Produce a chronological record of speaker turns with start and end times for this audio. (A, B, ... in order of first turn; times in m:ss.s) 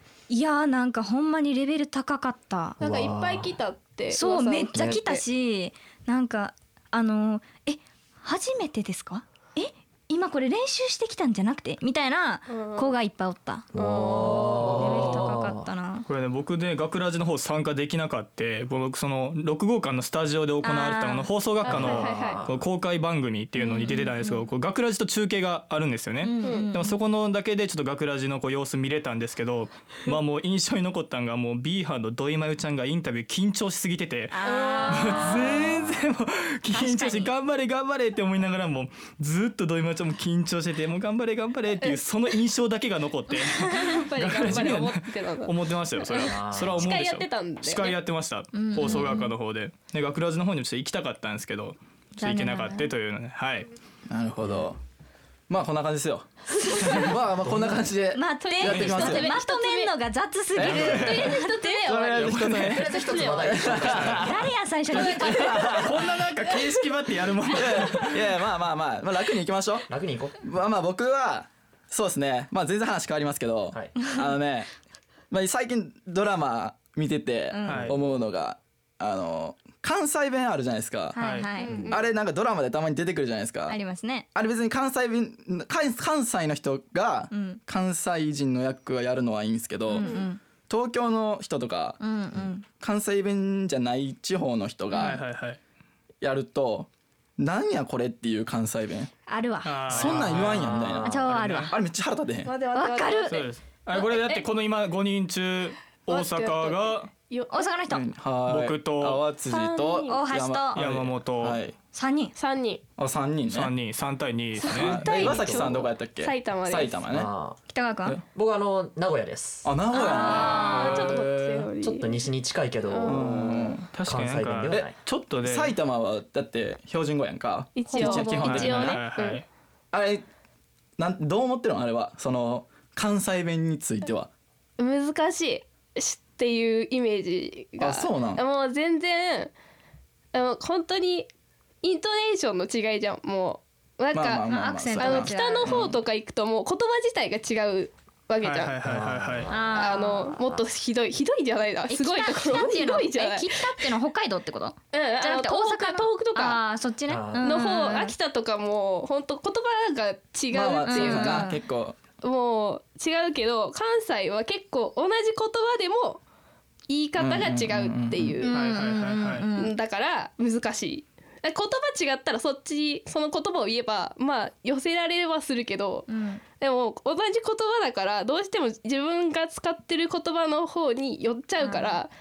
0:00.3-0:02.8 A
0:02.8-0:05.2 B
0:02.8-0:03.6 C
0:04.1-0:13.7 A
0:12.5-0:12.9 B
0:13.7-0:15.7 C
0:13.8-0:15.3 B
0:14.4-0:16.1 A
0:16.1-0:53.7 D
0:20.6-0:21.3 A
0:21.6-0:22.5 B
0:21.6-0:22.6 C
0:23.6-0:24.5 A
0:26.2-0:27.0 A
0:26.4-0:26.7 B
0:34.3-0:35.8 A
0:34.4-0:35.4 B
0:36.7-0:37.3 A
0:43.4-0:48.0 B
0:46.2-0:47.0 C
0:48.5-0:49.3 A
0:52.2-0:52.9 A
0:54.1-0:54.8 E
0:55.5-0:59.4 E
0:56.7-0:57.0 B
0:57.5-0:57.8 C
0:58.1-1:01.9 A
0:58.3-0:59.9 B
0:58.7-0:59.1 D
1:00.6-1:01.1 E
1:00.6-1:01.4 D
1:00.9-1:03.8 B
1:01.9-1:06.1 E
1:02.1-1:02.9 D
1:02.7-1:04.4 C
1:03.8-1:04.3 D
1:04.0-1:06.2 A
1:04.9-1:08.3 D
1:07.5-1:09.9 E
1:09.9-1:10.4 C
1:10.4-1:14.7 E
1:13.7-1:14.0 C
1:15.3-1:21.2 E
1:17.5-1:18.0 A
1:17.7-1:18.0 D
1:21.1-1:21.8 A
1:21.2-1:21.5 D
1:21.6-1:22.1 B
1:21.7-1:22.0 C
1:21.9-1:23.8 E
1:23.7-1:24.3 A
1:24.4-1:30.1 E
1:27.3-1:27.6 A
1:29.9-1:30.4 A
1:29.9-1:30.3 B
1:30.7-1:32.0 E
1:32.0-1:32.7 A
1:32.8-1:35.2 E
1:34.9-1:35.2 A
1:35.0-1:35.6 D
1:36.2-1:39.1 E
1:39.3-1:40.2 A
1:39.6-1:41.7 D
1:39.9-1:42.5 E
1:40.1-1:41.2 C
1:41.0-1:41.8 A
1:42.4-1:44.4 B
1:42.8-1:43.5 A
1:43.3-1:47.1 D
1:46.1-1:47.8 B
1:47.5-1:48.0 A
1:47.9-1:51.8 E
1:48.4-1:49.2 D
1:49.4-1:50.3 B
1:50.1-1:50.8 A
1:50.7-1:51.6 D
1:51.9-1:52.4 A
1:52.4-1:52.8 B
1:53.0-1:53.7 E
1:53.4-1:55.1 D
1:54.6-1:57.1 B
1:54.8-1:57.3 E
1:55.2-1:55.5 A
1:57.1-1:57.6 C
1:57.7-1:58.2 A
1:58.2-1:59.7 C
1:59.6-2:01.0 E
1:59.9-2:01.1 A
1:59.9-2:02.2 B
2:00.2-2:01.6 D
2:01.8-2:04.9 C
2:02.9-2:03.3 B
2:03.1-2:03.9 E
2:03.2-2:05.8 D
2:05.4-2:09.0 E
2:07.8-2:09.4 B
2:07.9-2:08.6 A
2:08.4-2:09.4 D
2:09.9-2:10.2 E
2:11.0-2:14.3 E
2:14.8-2:19.5 B
2:17.8-2:18.4 E
2:20.3-2:21.3 B
2:21.8-2:28.8 B
2:24.1-2:26.0 E
2:24.4-2:25.8 A
2:28.4-2:29.5 D
2:28.8-2:29.8 C
2:29.5-2:30.4 A
2:29.7-2:33.9 B
2:30.4-2:30.6 C
2:31.9-2:38.1 A
2:34.9-2:36.6 B
2:37.1-2:37.4 C
2:37.4-2:41.5 B
2:40.5-2:42.0 E
2:40.8-2:41.6 A
2:42.2-2:46.2 B
2:46.9-2:48.8 B
2:47.2-2:48.4 E
2:48.4-2:49.7 A
2:48.5-2:49.5 D
2:49.5-3:02.1 B
2:56.1-2:56.4 A
3:01.6-3:02.0 A